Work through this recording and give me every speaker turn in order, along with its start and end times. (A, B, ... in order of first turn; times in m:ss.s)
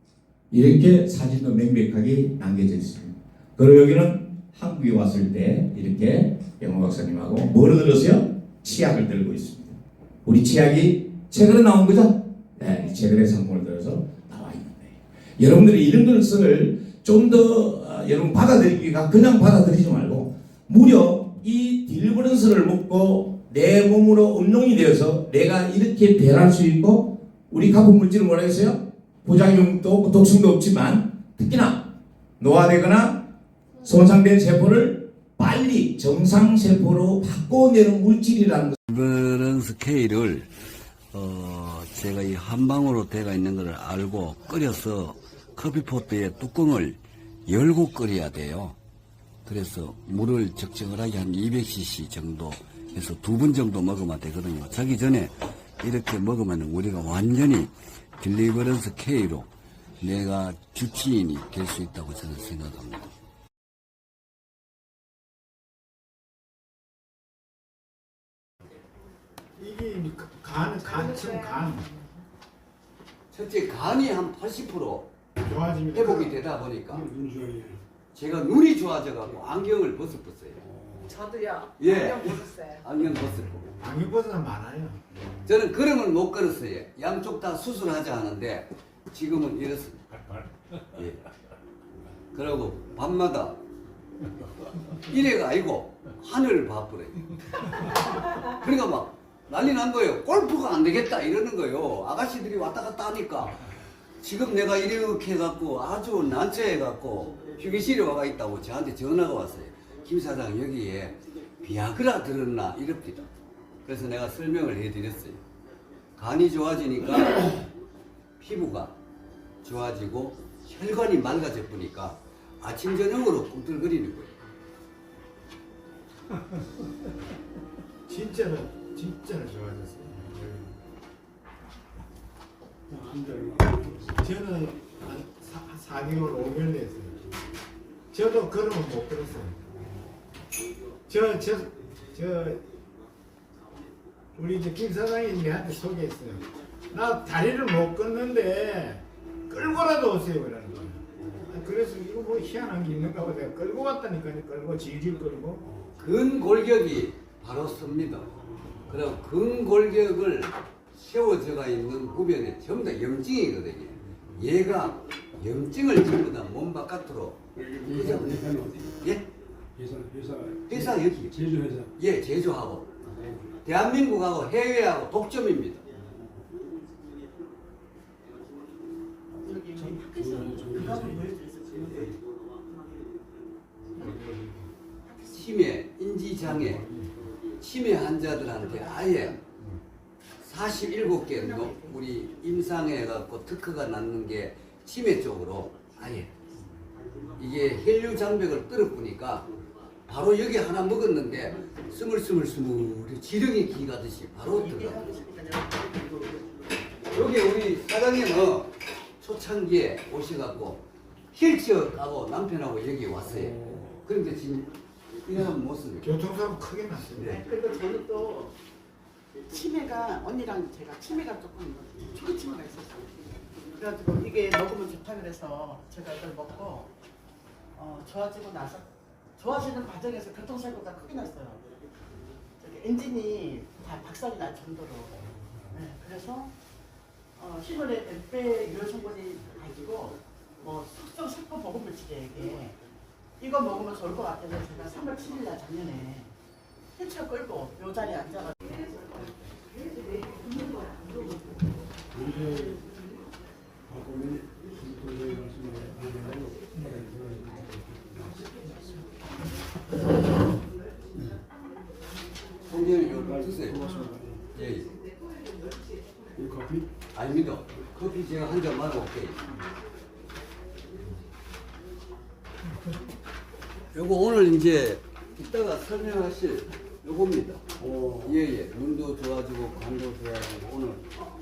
0:00.5-0:31.9 A
0:32.4-0:33.2 A
0:33.8-0:38.8 A
0:38.9-0:40.5 B
0:41.1-0:48.8 B
0:49.5-1:03.1 B
1:09.6-1:11.9 C
1:13.3-1:15.1 B
1:15.4-1:16.4 C
1:15.9-1:17.1 B
1:16.9-1:17.8 D
1:18.1-1:20.6 B
1:20.6-1:21.2 D
1:21.8-1:23.7 B
1:23.8-1:25.0 C
1:25.5-1:30.0 B
1:30.9-1:31.2 B
1:32.3-1:33.6 B
1:35.1-1:37.3 B
1:38.6-1:43.6 B
1:44.2-1:53.3 B
1:53.9-1:55.4 B
1:56.2-1:57.6 B
1:58.4-1:59.0 B
1:59.6-2:04.4 B
2:08.1-2:10.7 C
2:12.9-2:14.2 D
2:14.2-2:17.3 C
2:18.1-2:19.6 C
2:21.1-2:22.6 C
2:24.4-2:35.6 C
2:36.0-2:49.3 B
2:47.5-2:49.1 D
2:49.8-2:51.9 D
2:50.7-2:51.4 B
2:51.9-2:53.1 B
2:53.0-2:53.5 D
2:53.6-2:55.9 B
2:59.4-3:02.1 E
2:59.8-3:01.3 D
3:04.0-3:04.6 C
3:05.3-3:06.8 B
3:07.6-3:09.4 B
3:10.4-3:16.4 B
3:11.3-3:12.0 E
3:17.4-3:19.5 B
3:20.1-3:25.1 B
3:24.5-3:26.5 E
3:27.1-3:36.2 B
3:33.2-3:34.0 D
3:36.0-3:37.3 C
3:37.2-3:37.4 B
3:37.2-3:38.5 E
3:39.5-3:43.1 E
3:43.8-3:46.9 E
3:47.8-3:51.6 E
3:52.6-3:56.5 E
3:57.4-4:02.8 E
4:03.4-4:06.3 E
4:07.0-4:09.0 E
4:12.1-4:12.8 D
4:13.9-4:18.8 D
4:22.7-4:23.8 B
4:23.0-4:24.4 D
4:24.5-4:24.9 B
4:26.4-4:26.9 D
4:27.1-4:29.4 B
4:33.9-4:37.6 B
4:37.8-4:38.4 D
4:38.2-4:41.1 B